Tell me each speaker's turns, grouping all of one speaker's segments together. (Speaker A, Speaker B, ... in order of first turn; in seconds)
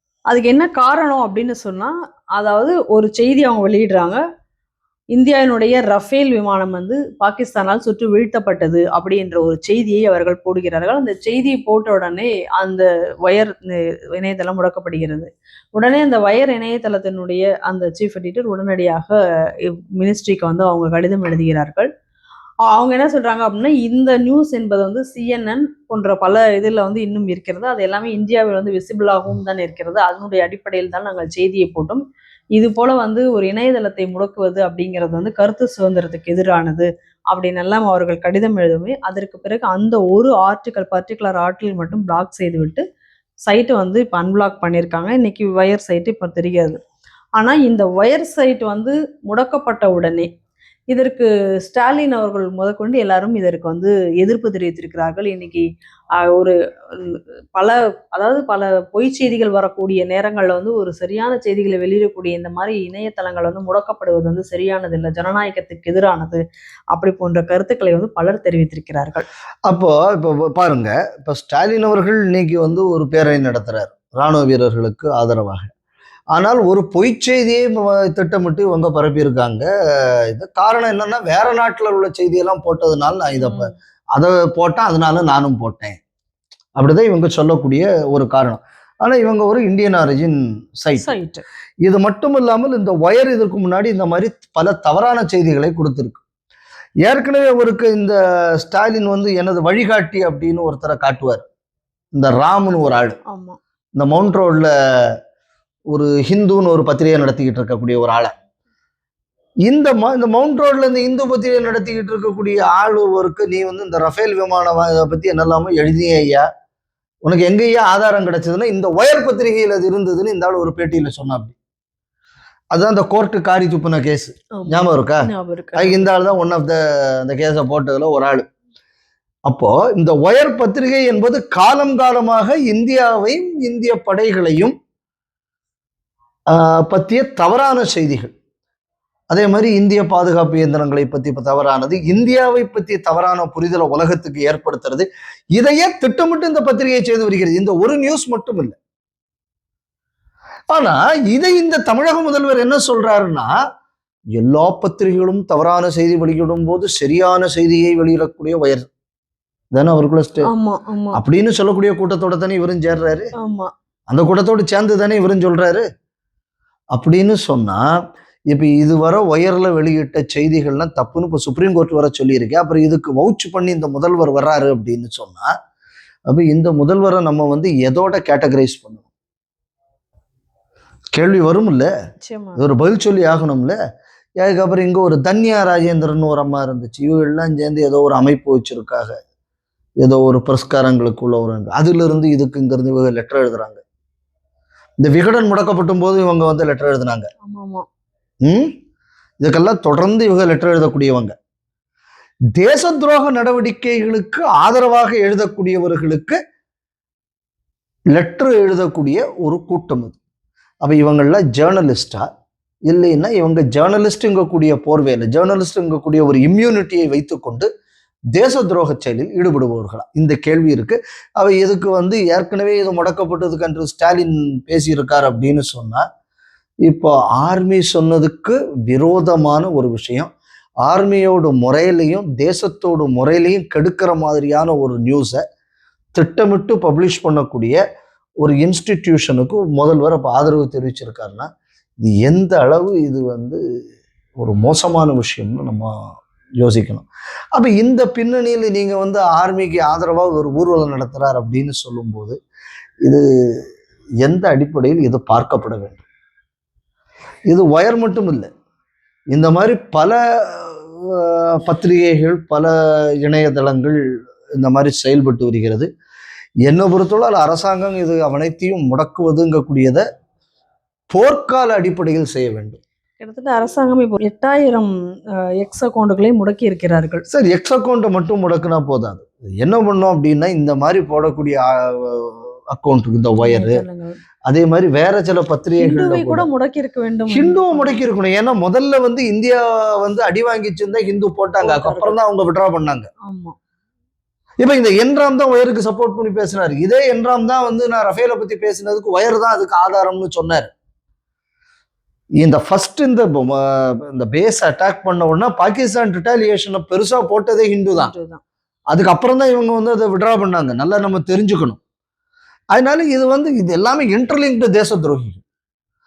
Speaker A: 0.3-4.2, 5.1-21.9, 22.7-32.0, 32.5-42.9, 43.5-46.8, 47.4-50.3, 50.9-55.7, 56.2-66.4, 66.9-69.3, 83.4-83.7, 91.0-91.4, 103.3-103.6, 124.6-126.0, 160.5-161.2, 163.4-163.7, 182.3-182.6, 197.4-197.8, 273.2-274.9, 275.6-277.2, 283.4-284.2, 285.8-288.0, 291.6-292.2, 293.3-293.6, 308.0-308.4
Speaker B: 69.7-75.7, 76.4-86.0, 86.8-91.1, 91.8-96.2, 97.0-101.4, 102.2-103.2, 104.0-105.2, 105.9-108.3, 109.7-116.5, 117.2-121.6, 122.7-125.2, 125.8-128.4, 129.5-134.7, 136.5-138.3, 139.3-148.8, 150.7-153.5, 154.3-158.9, 159.7-160.5, 161.1-163.3, 164.1-165.9, 166.9-167.8, 168.5-175.5, 176.3-179.1, 181.1-181.9, 182.6-183.8, 184.4-189.1, 190.0-193.8, 195.0-197.3, 198.4-198.7, 199.4-201.3, 202.6-206.4, 208.1-210.2, 210.8-212.3, 212.9-217.7, 218.4-226.0, 226.9-230.3, 230.8-235.4, 236.2-237.8, 238.4-241.5, 242.0-243.6, 244.4-245.9, 246.6-252.4, 253.1-253.6, 254.2-256.0, 257.5-258.5, 259.3-264.0, 264.6-265.9, 266.7-270.1, 271.1-272.8, 277.3-283.8, 284.5-286.5, 287.3-293.1, 294.6-300.7, 302.4-308.1, 308.9-311.8, 312.8-315.4